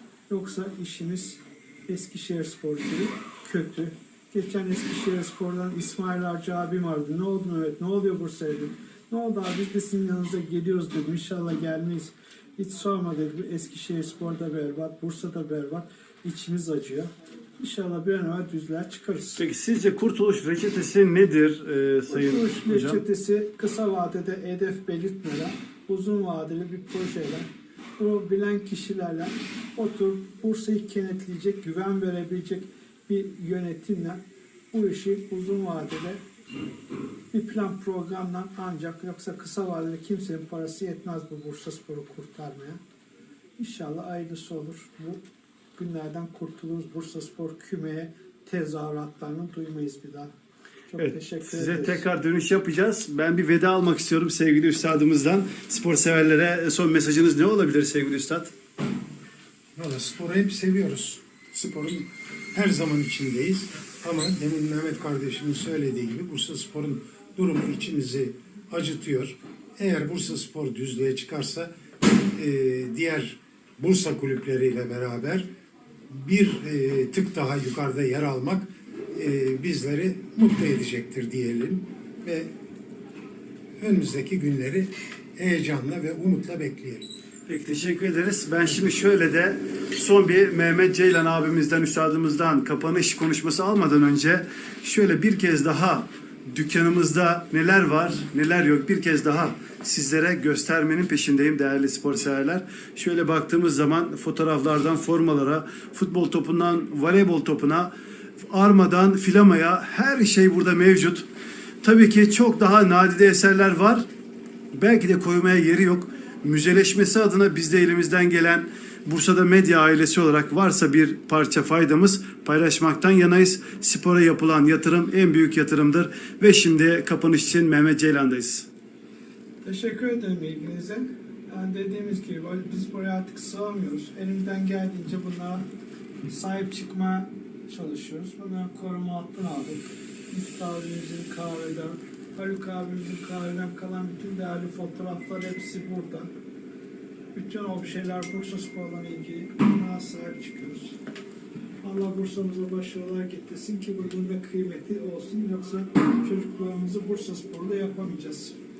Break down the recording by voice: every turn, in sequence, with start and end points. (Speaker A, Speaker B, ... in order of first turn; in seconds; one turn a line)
Speaker A: 0.3-19.4
Speaker B: 19.4-23.0
Speaker A: 22.1-34.2
Speaker A: 34.7-36.2
Speaker A: 37.3-42.8
Speaker A: 43.6-45.2
Speaker A: 45.8-50.3
Speaker A: 50.9-52.0
Speaker B: 51.0-58.5
Speaker C: 59.7-75.5
Speaker C: 76.1-82.5
Speaker C: 83.8-87.1
Speaker B: 87.5-107.9
Speaker B: 108.4-111.3
Speaker B: 111.8-114.1
Speaker B: 114.7-128.7
Speaker A: 129.6-135.7
Speaker A: 136.3-146.3
Speaker A: 147.3-151.0
Speaker A: 151.8-158.6